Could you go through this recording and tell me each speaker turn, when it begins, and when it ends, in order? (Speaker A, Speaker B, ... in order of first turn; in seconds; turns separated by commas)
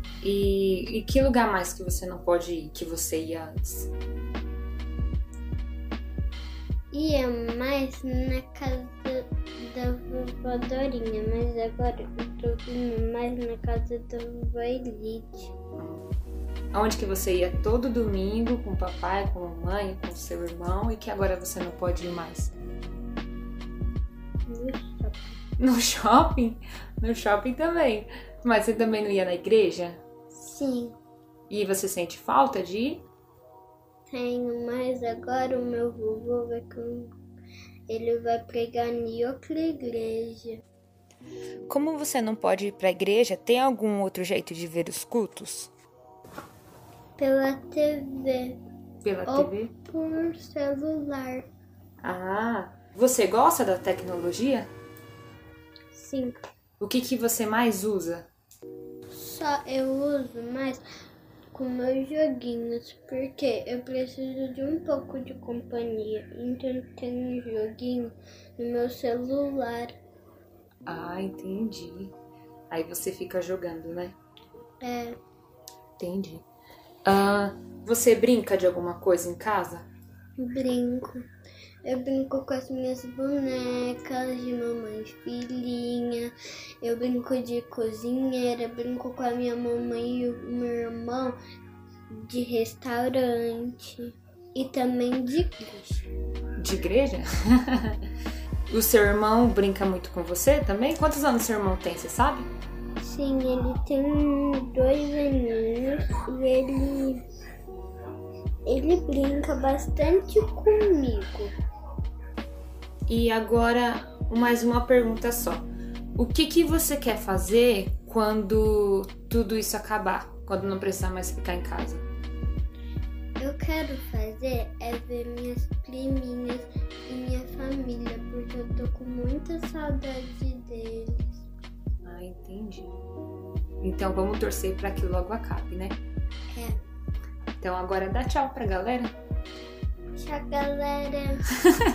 Speaker A: 0.2-3.9, Speaker B: 6.9-15.5, Speaker A: 16.7-22.5, Speaker B: 24.5-25.3, Speaker A: 25.6-30.0, Speaker B: 30.3-30.9, Speaker A: 31.5-33.0, Speaker B: 34.1-37.1, Speaker B: 37.9-40.6, Speaker A: 41.7-45.7, Speaker B: 47.2-48.6, Speaker A: 49.0-49.7, Speaker B: 49.3-51.5, Speaker A: 52.0-54.7, Speaker B: 55.9-56.4, Speaker A: 56.8-58.3, Speaker B: 59.1-60.8, Speaker B: 61.5-69.9, Speaker A: 70.9-72.1, Speaker A: 72.7-74.2, Speaker B: 74.8-75.2, Speaker A: 76.0-76.4, Speaker A: 77.0-79.8, Speaker B: 80.4-81.3, Speaker B: 81.8-91.4, Speaker B: 92.1-96.0, Speaker A: 96.6-98.0, Speaker A: 98.7-102.5, Speaker B: 103.0-107.2, Speaker B: 108.7-111.5, Speaker A: 113.1-122.0, Speaker B: 123.4-131.4, Speaker A: 132.0-132.9, Speaker A: 133.8-136.0, Speaker B: 136.5-136.8, Speaker A: 137.6-139.1, Speaker B: 140.2-141.4